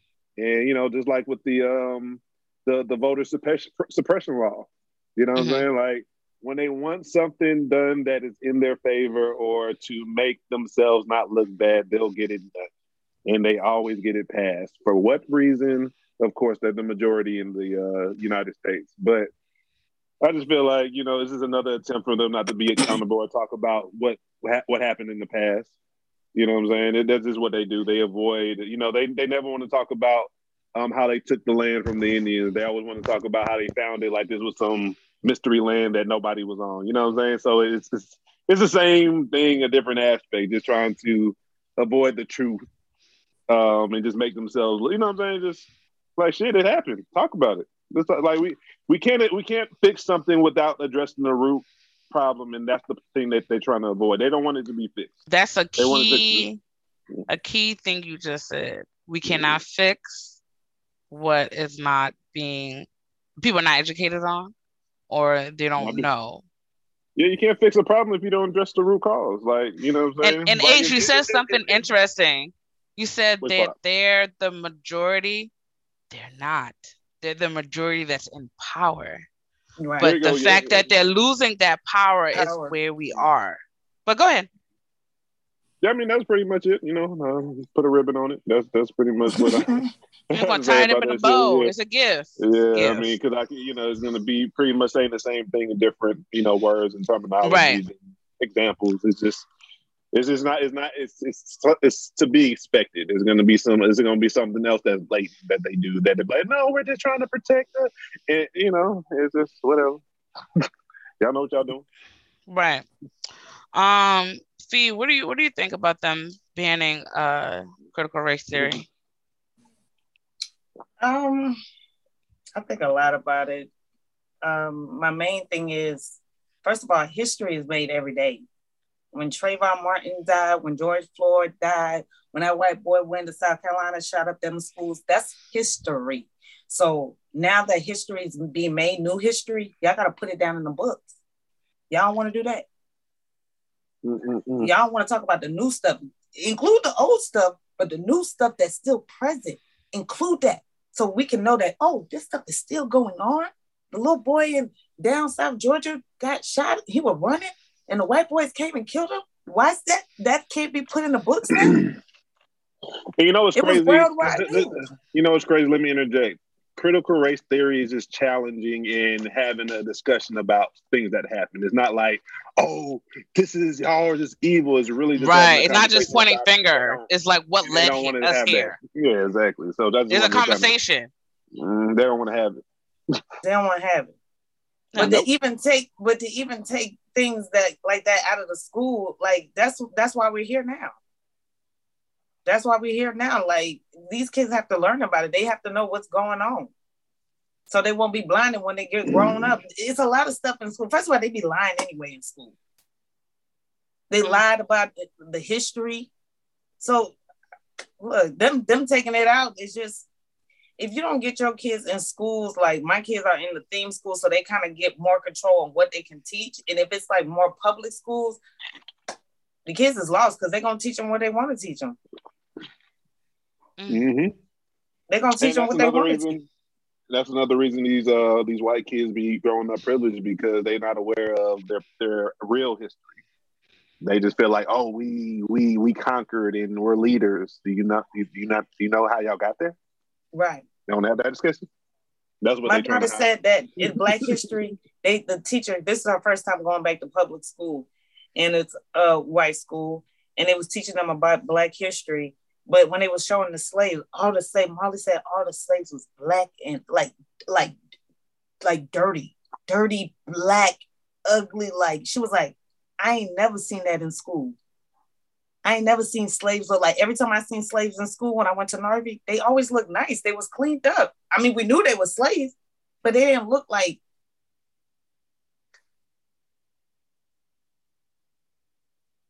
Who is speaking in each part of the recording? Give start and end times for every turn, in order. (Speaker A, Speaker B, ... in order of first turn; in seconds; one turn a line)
Speaker A: 0.4-12.7
Speaker B: 5.3-5.7
Speaker A: 13.2-19.3
Speaker A: 20.2-25.7
Speaker A: 26.3-42.6
Speaker A: 43.5-55.1
Speaker B: 55.3-56.6
Speaker A: 55.8-56.5
Speaker B: 57.3-60.4
Speaker A: 59.2-59.6
Speaker B: 61.1-62.9
Speaker B: 63.4-64.5
Speaker B: 65.1-66.4
Speaker A: 65.8-66.0
Speaker A: 67.2-71.8
Speaker B: 70.2-75.5
Speaker A: 73.4-73.7
Speaker B: 76.1-79.2
Speaker C: 79.8-80.1
Speaker B: 80.0-84.5
Speaker A: 80.0-80.9
Speaker C: 82.3-82.7
Speaker A: 85.8-89.7
Speaker C: 89.3-89.8
Speaker A: 90.3-91.7
Speaker B: 90.3-93.1
Speaker A: 92.4-99.5
Speaker B: 97.4-97.8
Speaker A: 100.1-110.0
Speaker A: 111.2-111.8
Speaker B: 112.5-112.8
Speaker B: 113.7-118.8
Speaker A: 118.5-118.8
Speaker C: 121.0-121.6
Speaker C: 122.5-123.7
Speaker C: 124.4-128.4
Speaker C: 129.1-141.1
Speaker C: 141.9-142.7
Speaker A: 144.0-144.7
Speaker C: 144.6-161.8
Speaker A: 163.2-177.1
Speaker C: 163.6-164.8
Speaker B: 175.2-178.8
Speaker A: 177.6-180.7
Speaker B: 180.1-181.1
Speaker A: 181.6-182.6
Speaker C: 183.4-184.1
Speaker B: 184.9-185.2
Speaker C: 185.0-190.9
Speaker A: 185.0-185.3
Speaker C: 192.4-196.7
Speaker C: 197.7-202.5
Speaker A: 199.1-199.5
Speaker C: 204.1-206.1
Speaker C: 206.8-207.2
Speaker C: 208.0-210.1
Speaker C: 210.8-218.4
Speaker C: 219.7-222.0
Speaker B: 223.8-224.1
Speaker A: 223.9-224.3
Speaker C: 225.1-226.3
Speaker A: 225.4-226.5
Speaker A: 227.1-233.1
Speaker A: 234.0-239.8
Speaker C: 240.3-240.6
Speaker A: 240.9-241.6
Speaker A: 242.4-243.3
Speaker C: 242.6-257.7
Speaker A: 243.8-244.4
Speaker C: 258.6-264.6
Speaker C: 265.6-274.0